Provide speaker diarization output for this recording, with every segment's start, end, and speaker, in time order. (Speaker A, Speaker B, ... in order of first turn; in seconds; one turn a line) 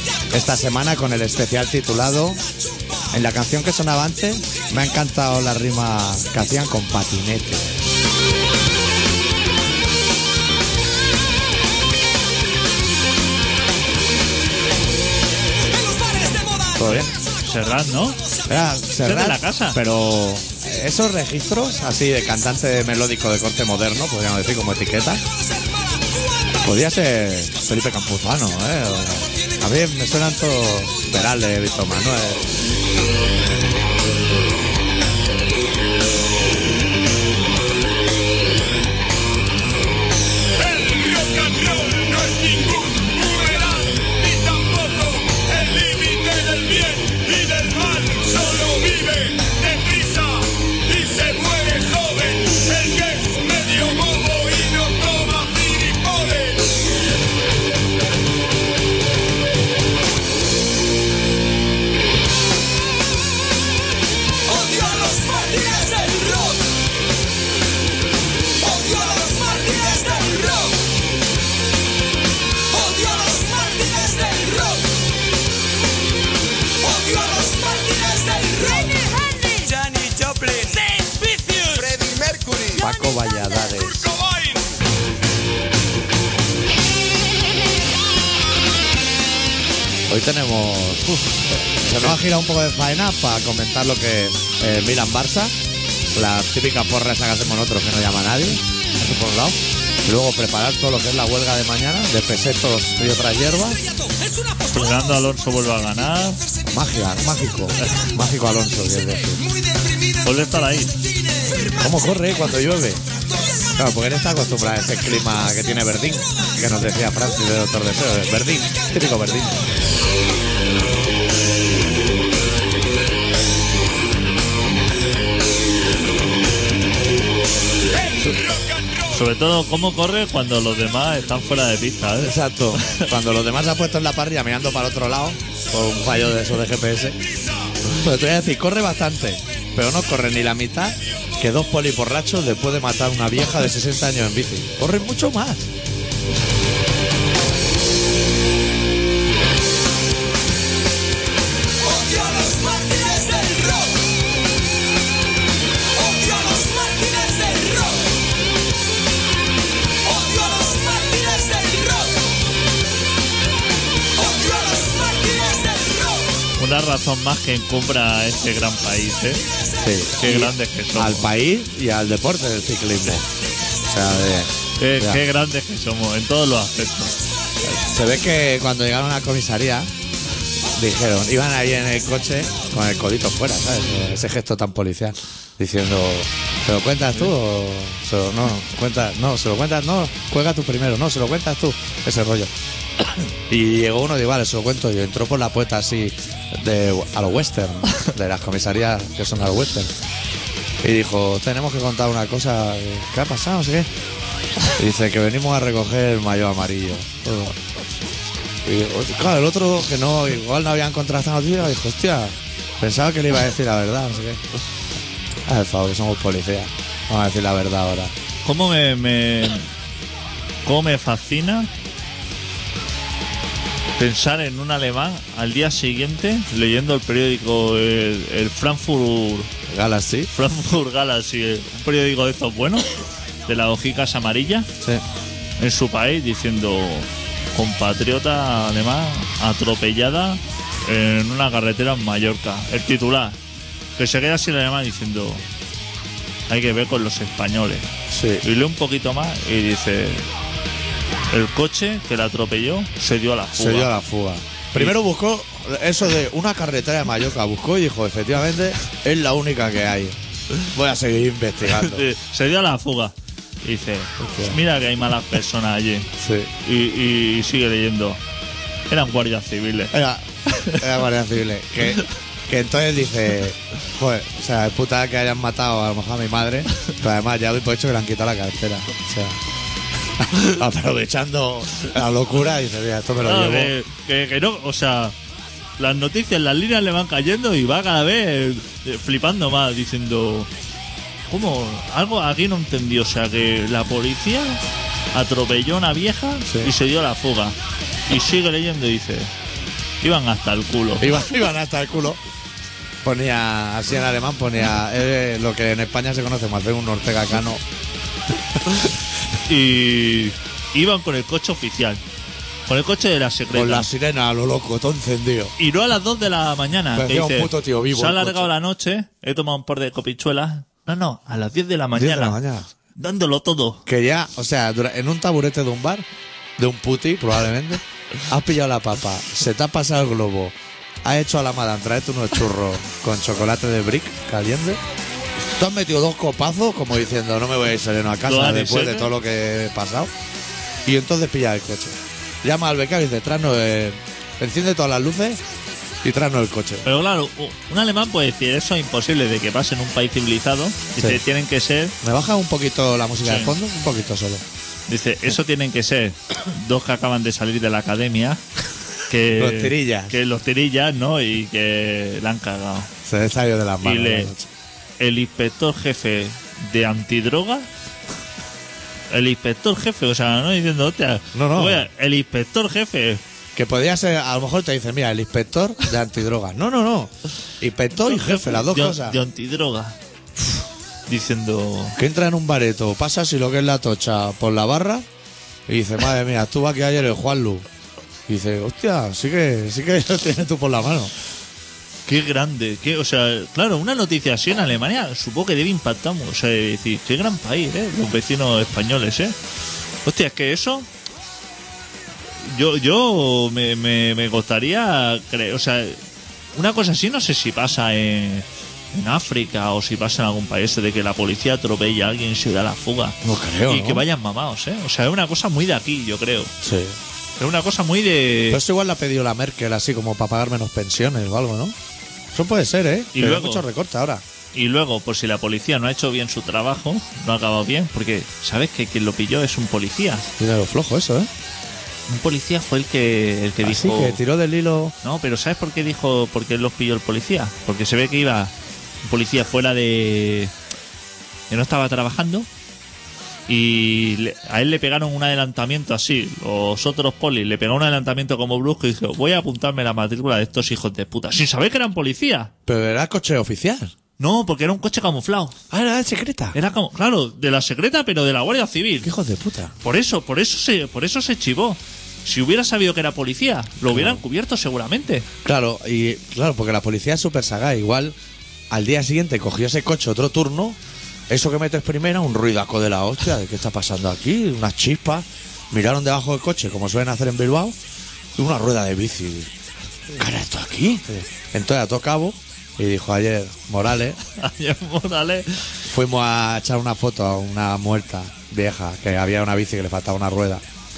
Speaker A: 0.3-2.4
Speaker A: 3.1-7.8
Speaker A: 16.8-17.1
Speaker B: 16.9-18.2
Speaker A: 18.5-25.2
Speaker B: 19.0-19.8
Speaker A: 26.6-32.5
Speaker C: 40.6-56.8
Speaker D: 64.5-66.5
Speaker D: 68.6-70.7
Speaker D: 72.7-74.8
Speaker D: 76.9-79.9
Speaker D: 81.0-81.8
Speaker A: 82.8-84.1
Speaker A: 90.1-95.5
Speaker A: 96.1-103.8
Speaker B: 104.7-106.4
Speaker A: 106.7-109.4
Speaker B: 110.2-110.9
Speaker A: 111.8-113.0
Speaker A: 113.7-119.7
Speaker B: 129.1-133.1
Speaker A: 132.2-137.2
Speaker A: 137.8-145.7
Speaker D: 151.9-153.8
Speaker D: 156.1-157.8
Speaker D: 160.1-162.0
Speaker D: 164.2-166.0
Speaker B: 166.6-169.4
Speaker A: 169.8-173.3
Speaker B: 170.2-171.3
Speaker A: 173.8-175.2
Speaker B: 174.8-177.1
Speaker A: 177.8-179.9
Speaker A: 180.8-192.5
Speaker A: 193.5-199.9
Speaker A: 200.8-203.9
Speaker A: 204.7-207.6
Speaker A: 208.6-214.4
Speaker A: 215.5-218.1
Speaker B: 218.4-219.7
Speaker B: 220.7-221.7
Speaker B: 224.0-229.5
Speaker A: 229.7-230.3
Speaker B: 230.3-232.9
Speaker B: 233.5-234.7
Speaker B: 235.6-243.4
Speaker B: 244.0-245.4
Speaker B: 246.5-247.9
Speaker A: 248.1-248.4
Speaker B: 248.4-250.2
Speaker B: 251.3-253.9
Speaker A: 253.5-262.1
Speaker B: 261.7-266.1
Speaker A: 264.2-264.6
Speaker A: 266.2-266.5
Speaker B: 266.6-268.2
Speaker B: 268.9-269.9
Speaker A: 269.9-279.4
Speaker B: 270.5-270.8
Speaker A: 280.2-283.7
Speaker B: 283.2-285.1
Speaker B: 285.8-290.5
Speaker B: 291.3-294.6
Speaker B: 295.1-297.6
Speaker A: 296.5-296.7
Speaker B: 298.1-299.3
Speaker B: 300.0-301.2
Speaker A: 301.0-302.2
Speaker A: 303.0-307.6
Speaker B: 309.4-312.0
Speaker B: 312.7-313.9
Speaker A: 313.5-315.5
Speaker B: 315.6-322.4
Speaker A: 316.9-318.5
Speaker A: 321.9-322.7
Speaker B: 323.0-323.9
Speaker A: 323.9-326.1
Speaker A: 326.6-334.8
Speaker A: 335.6-340.1
Speaker B: 338.2-339.1
Speaker A: 340.9-345.4
Speaker A: 346.0-346.9
Speaker B: 346.9-352.0
Speaker A: 352.0-354.4
Speaker B: 353.2-353.6
Speaker B: 354.9-358.4
Speaker B: 359.1-362.9
Speaker A: 359.4-360.2
Speaker A: 363.1-364.5
Speaker B: 363.8-364.3
Speaker B: 365.0-367.7
Speaker B: 369.1-373.2
Speaker A: 371.3-371.9
Speaker A: 373.6-379.2
Speaker B: 378.1-380.0
Speaker B: 381.1-382.0
Speaker A: 382.0-385.1
Speaker A: 385.7-387.7
Speaker A: 388.3-391.1
Speaker B: 392.1-399.4
Speaker B: 400.1-400.9
Speaker B: 402.4-406.0
Speaker B: 406.6-416.5
Speaker A: 413.2-414.1
Speaker A: 416.6-417.0
Speaker B: 417.4-418.6
Speaker A: 418.5-421.8
Speaker A: 422.3-424.2
Speaker B: 423.1-423.7
Speaker B: 424.5-430.3
Speaker A: 430.4-431.3
Speaker B: 432.1-434.2
Speaker A: 433.6-434.9
Speaker B: 435.0-438.5
Speaker B: 439.0-440.5
Speaker B: 441.5-442.5
Speaker B: 443.5-452.5
Speaker A: 452.7-453.9
Speaker B: 454.2-455.6
Speaker A: 455.7-456.6
Speaker B: 456.6-459.1
Speaker A: 459.0-459.7
Speaker B: 459.8-465.3
Speaker A: 463.9-464.2
Speaker A: 465.4-468.2
Speaker A: 468.7-470.8
Speaker A: 471.3-477.8
Speaker A: 478.4-479.5
Speaker A: 480.1-484.2
Speaker B: 484.3-485.7
Speaker A: 485.9-490.6